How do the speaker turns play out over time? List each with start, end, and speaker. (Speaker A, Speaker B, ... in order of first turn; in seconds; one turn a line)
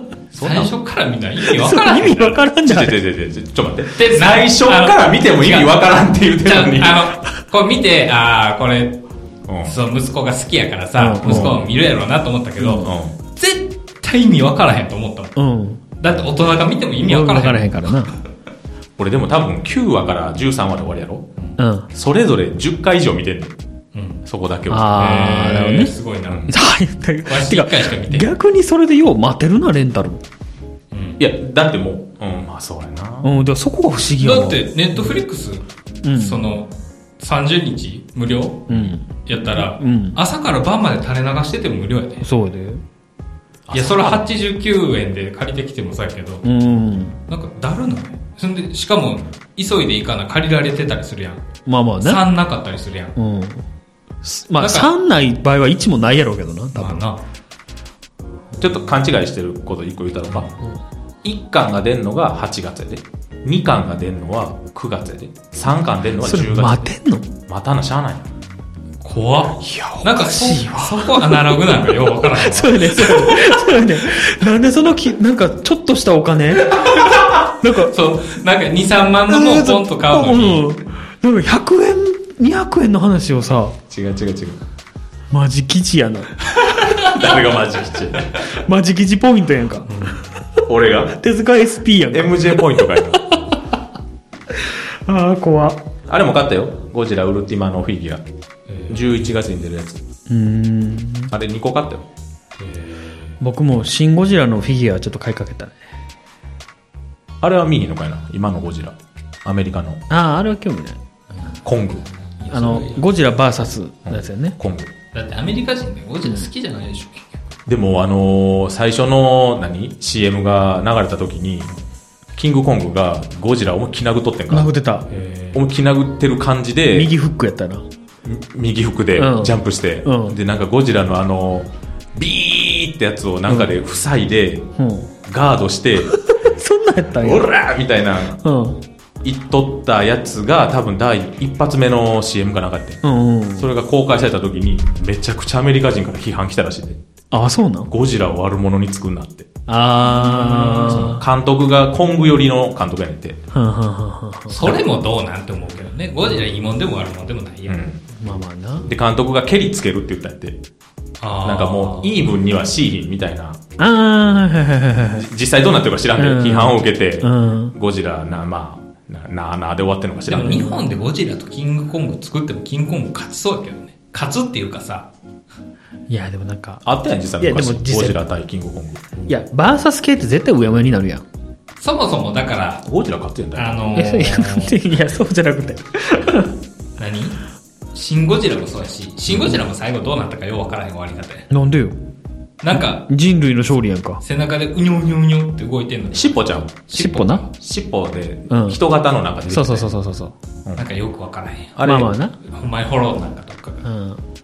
Speaker A: 0.3-0.7
Speaker B: 0.4-2.4
Speaker C: 1.4-3.0
Speaker A: 2.6-7.1
Speaker B: 3.9-5.8
Speaker B: 6.4-9.0
Speaker A: 9.5-9.8
Speaker B: 9.6-15.3
Speaker C: 11.0-11.6
Speaker A: 11.2-11.6
Speaker C: 12.6-12.9
Speaker A: 12.8-13.1
Speaker C: 15.3-15.8
Speaker B: 16.0-18.1
Speaker C: 17.0-18.1
Speaker A: 19.0-21.2
Speaker C: 21.6-21.9
Speaker A: 21.9-23.6
Speaker B: 23.9-24.2
Speaker A: 24.2-25.0
Speaker C: 24.7-25.9
Speaker B: 24.9-26.5
Speaker C: 26.5-30.2
Speaker B: 27.2-28.3
Speaker B: 30.9-31.2
Speaker A: 31.2-33.3
Speaker C: 33.2-35.2
Speaker B: 34.2-35.6
Speaker C: 36.0-36.4
Speaker B: 36.1-42.2
Speaker C: 38.7-40.2
Speaker C: 42.2-42.8
Speaker A: 43.6-44.4
Speaker B: 43.7-46.4
Speaker C: 46.4-47.2
Speaker B: 47.3-51.4
Speaker C: 51.7-52.2
Speaker B: 52.0-53.1
Speaker C: 53.1-53.6
Speaker C: 54.2-57.0
Speaker B: 54.6-54.9
Speaker B: 56.8-57.2
Speaker A: 58.6-60.5
Speaker A: 61.2-66.9
Speaker C: 66.2-67.3
Speaker A: 67.5-68.3
Speaker B: 69.0-73.9
Speaker C: 69.6-77.9
Speaker B: 77.7-80.7
Speaker C: 79.3-83.8
Speaker A: 83.9-84.6
Speaker C: 85.3-86.4
Speaker B: 86.5-87.2
Speaker A: 86.9-88.4
Speaker C: 88.4-93.4
Speaker B: 89.9-90.3
Speaker A: 90.7-91.1
Speaker A: 92.1-93.2
Speaker C: 94.5-95.8
Speaker A: 96.1-98.2
Speaker B: 98.7-99.2
Speaker A: 98.9-100.0
Speaker C: 100.3-101.3
Speaker A: 101.3-102.1
Speaker B: 102.6-103.3
Speaker C: 103.4-105.8
Speaker A: 107.4-110.0
Speaker C: 110.1-111.0
Speaker A: 111.6-112.1
Speaker B: 112.4-113.1
Speaker C: 112.5-114.5
Speaker A: 114.0-114.9
Speaker B: 115.1-117.6
Speaker A: 117.7-121.7
Speaker A: 122.3-124.7
Speaker C: 124.5-125.1
Speaker B: 125.1-125.6
Speaker A: 125.5-127.1
Speaker C: 126.9-127.8
Speaker A: 128.2-134.7
Speaker C: 129.2-130.4
Speaker C: 134.8-135.1
Speaker A: 135.2-136.1
Speaker C: 136.1-137.5
Speaker A: 137.2-138.4
Speaker C: 138.4-138.8
Speaker A: 139.2-143.0
Speaker C: 143.0-143.7
Speaker A: 143.6-147.0
Speaker C: 147.3-147.9
Speaker A: 147.9-149.5
Speaker C: 149.7-151.2
Speaker B: 150.1-151.1
Speaker A: 150.8-153.4
Speaker C: 153.5-154.7
Speaker B: 154.5-157.8
Speaker A: 157.7-158.0
Speaker C: 158.2-158.9
Speaker A: 158.8-160.6
Speaker B: 161.2-162.2
Speaker A: 161.4-163.6
Speaker C: 163.8-165.3
Speaker A: 165.1-170.7
Speaker C: 166.2-167.7
Speaker B: 170.3-175.1
Speaker C: 170.3-170.9
Speaker C: 176.1-176.8
Speaker A: 176.8-179.3
Speaker C: 177.4-178.2
Speaker C: 179.3-181.2
Speaker B: 181.8-182.8
Speaker A: 182.8-183.9
Speaker B: 183.5-184.8
Speaker C: 183.9-186.5
Speaker B: 187.0-187.4
Speaker B: 187.9-191.5
Speaker A: 189.3-189.6
Speaker C: 191.5-192.0
Speaker B: 192.6-193.0
Speaker C: 192.7-194.2
Speaker B: 194.2-197.5
Speaker A: 196.1-196.7
Speaker C: 196.9-197.4
Speaker A: 197.5-199.9
Speaker C: 198.5-198.8
Speaker C: 199.5-200.3
Speaker B: 200.8-201.8
Speaker A: 201.8-202.1
Speaker C: 201.8-202.4
Speaker B: 202.4-203.8
Speaker C: 203.8-204.2